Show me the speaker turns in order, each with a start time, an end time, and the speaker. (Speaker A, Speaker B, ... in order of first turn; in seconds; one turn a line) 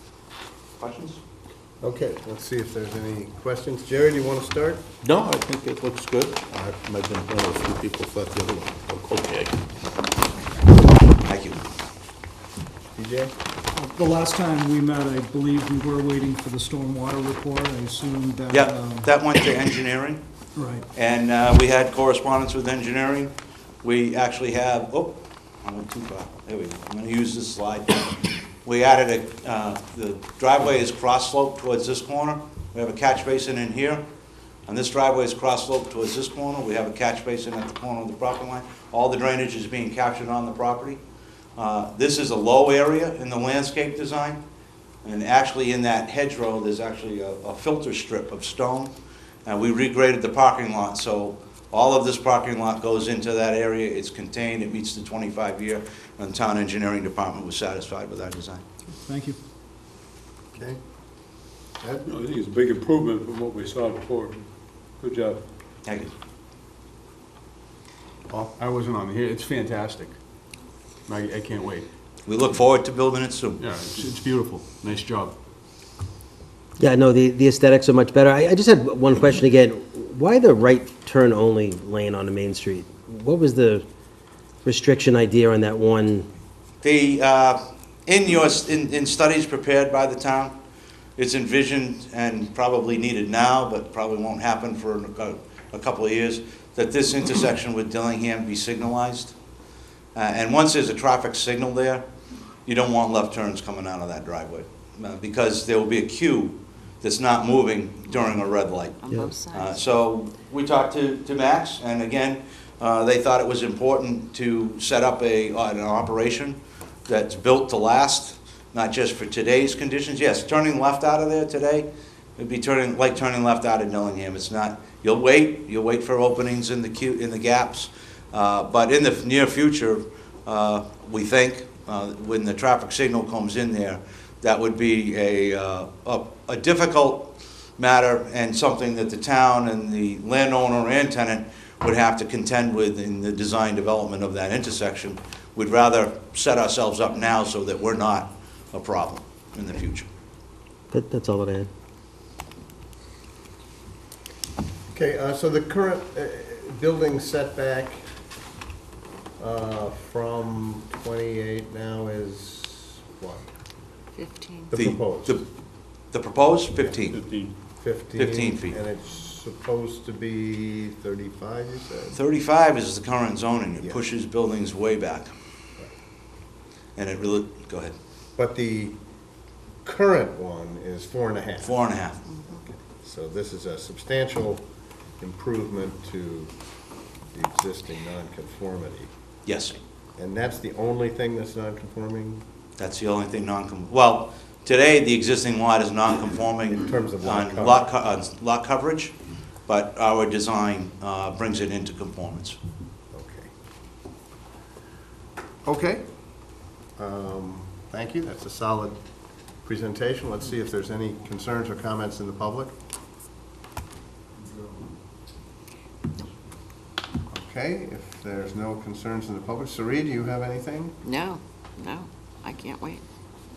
Speaker A: 0.8-1.2
Speaker B: 1.8-4.9
Speaker C: 5.0-9.7
Speaker A: 11.3-11.6
Speaker B: 12.9-13.3
Speaker D: 13.8-19.1
Speaker A: 18.5-20.2
Speaker D: 20.6-20.9
Speaker A: 20.9-23.3
Speaker A: 23.8-28.0
Speaker A: 28.6-34.0
Speaker A: 34.7-41.0
Speaker A: 41.6-44.4
Speaker A: 45.0-48.9
Speaker A: 49.5-58.6
Speaker D: 59.1-59.4
Speaker E: 62.1-64.5
Speaker E: 65.0-65.4
Speaker A: 65.9-66.1
Speaker F: 68.3-70.1
Speaker F: 71.1-71.9
Speaker A: 72.3-73.6
Speaker F: 73.6-75.3
Speaker G: 76.8-83.8
Speaker G: 84.6-86.3
Speaker A: 86.8-90.6
Speaker A: 91.2-99.4
Speaker A: 100.2-102.1
Speaker A: 102.7-150.1
Speaker H: 109.0-109.8
Speaker G: 150.9-151.7
Speaker B: 154.9-158.0
Speaker B: 159.4-163.4
Speaker H: 164.2-164.7
Speaker B: 164.7-165.4
Speaker A: 164.7-165.5
Speaker A: 166.1-167.2
Speaker E: 167.1-167.5
Speaker B: 167.8-172.2
Speaker A: 168.2-168.8
Speaker A: 172.1-175.3
Speaker A: 177.0-177.9
Speaker B: 178.4-179.0
Speaker B: 179.8-181.8
Speaker A: 181.6-182.2
Speaker B: 182.5-184.7
Speaker B: 185.2-186.5
Speaker B: 187.3-189.1
Speaker A: 189.5-189.8
Speaker B: 190.2-192.4
Speaker A: 192.8-199.2
Speaker B: 196.8-197.9
Speaker A: 199.7-202.6
Speaker B: 203.1-203.5
Speaker B: 205.7-206.1
Speaker B: 207.0-209.0
Speaker B: 209.6-212.7
Speaker B: 217.3-221.0
Speaker H: 221.0-223.0